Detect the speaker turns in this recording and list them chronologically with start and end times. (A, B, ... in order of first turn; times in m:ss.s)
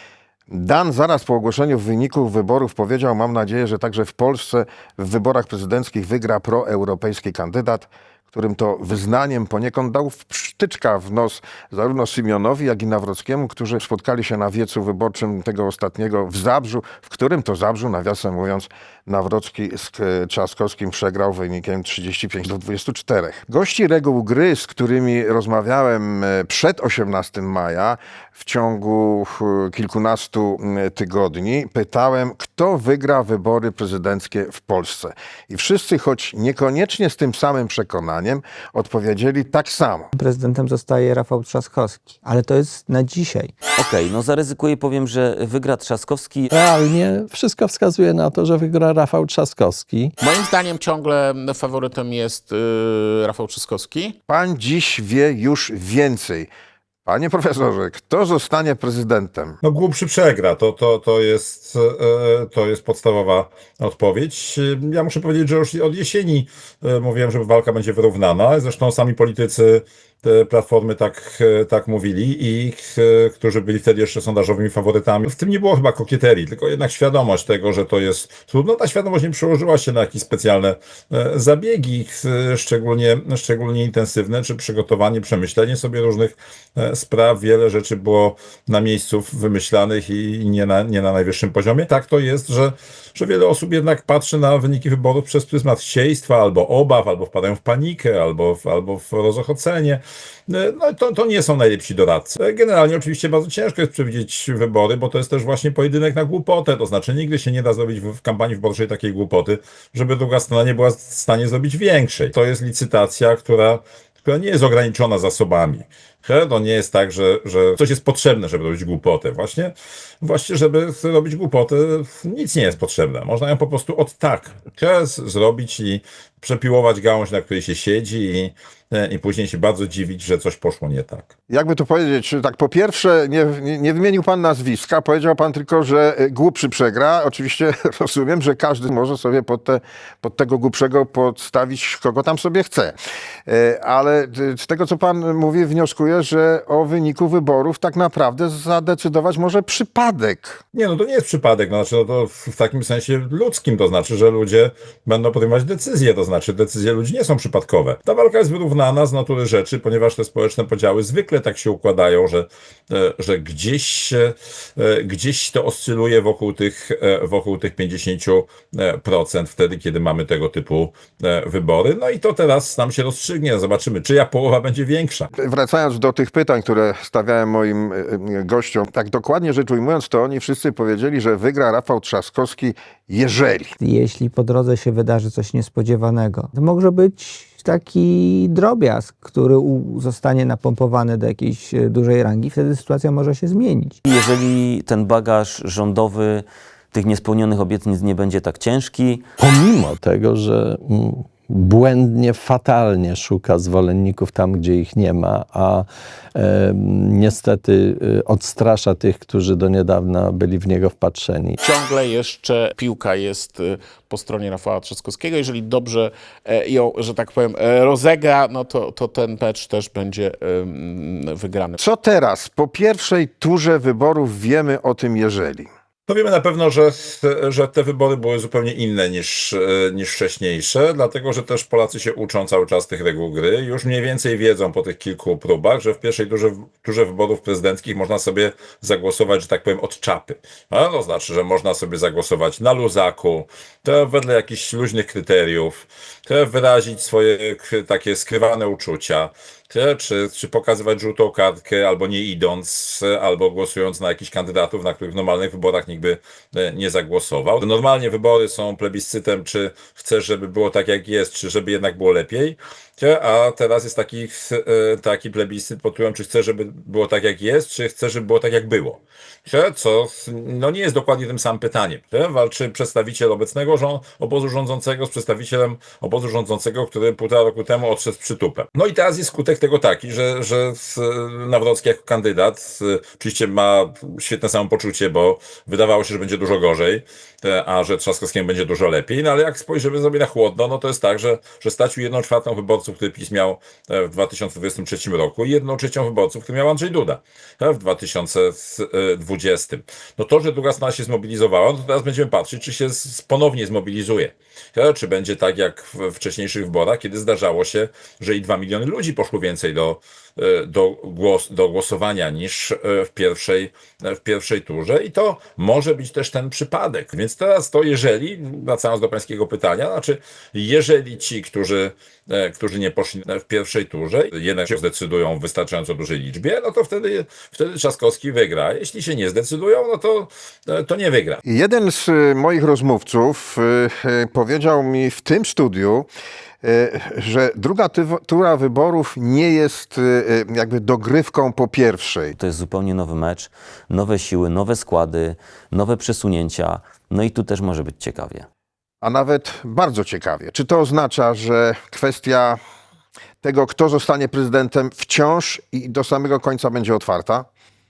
0:00.5-0:40.1 A
0:40.1-0:43.5 B
0:43.8-0:46.5 C
0:46.5-0:50.1 D
0:50.2-0:54.1 E
0:54.3-0:56.5 A
0:57.0-0:59.6 A
0:59.6-2:11.3 F
2:11.5-2:22.9 A
2:23.5-2:30.6 A
2:30.7-2:55.3 F
2:55.3-3:03.8 A
3:03.8-3:14.0 B
3:14.0-3:19.2 C
3:19.4-3:31.6 D
3:31.6-3:41.8 E
3:41.8-3:45.7 A
3:46.1-5:31.4 F
5:31.4-5:36.1 A
5:36.6-5:42.3 A
5:42.3-5:48.5 C
5:49.0-5:52.6 A
5:53.4-5:57.5 A